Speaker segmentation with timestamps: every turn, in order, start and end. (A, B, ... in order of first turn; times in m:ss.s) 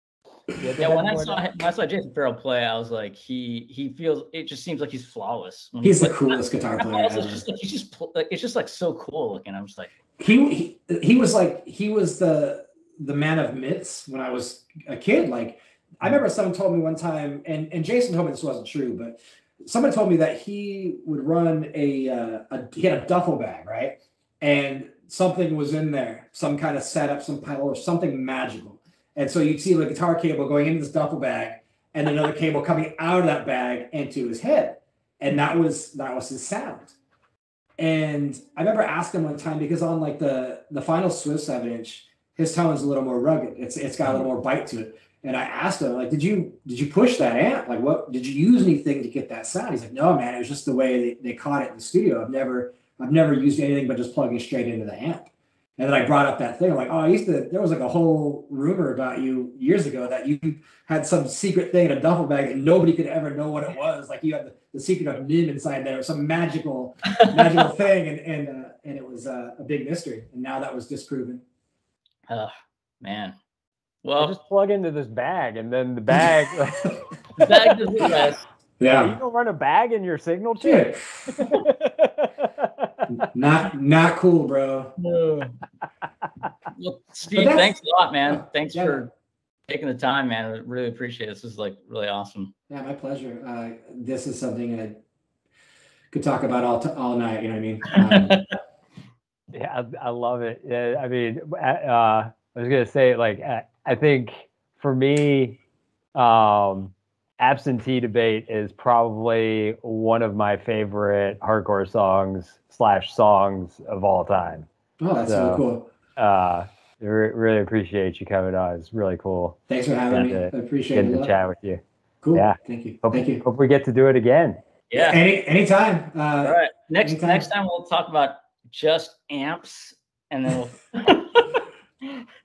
0:00.5-0:01.4 A
0:00.8-0:09.9 B
0:05.8-0:07.4 C
0:10.2-0:36.9 C
0:37.8-1:11.4 C
1:07.1-1:07.5 B
1:12.3-1:13.3 B
1:14.0-1:14.3 B
1:14.2-1:17.5 A
1:17.4-1:18.4 B
1:18.8-1:19.2 C
1:18.9-1:23.2 A
1:20.6-1:21.5 C
1:23.2-1:25.0 C
1:25.0-1:25.6 B
1:26.8-1:29.1 B
1:27.3-1:27.7 C
1:28.2-1:29.0 C
1:29.7-1:32.5 B
1:32.7-1:35.0 C
1:36.1-1:38.4 C
1:37.9-1:38.4 B
1:39.5-1:45.6 A
1:46.1-1:54.7 A
1:55.0-1:55.9 C
1:55.2-1:55.6 A
1:56.2-2:01.8 A
1:59.7-2:01.3 C
2:02.2-2:03.4 C
2:02.3-2:04.6 A
2:04.9-2:05.2 B
2:04.9-2:07.5 C
2:06.4-2:12.2 B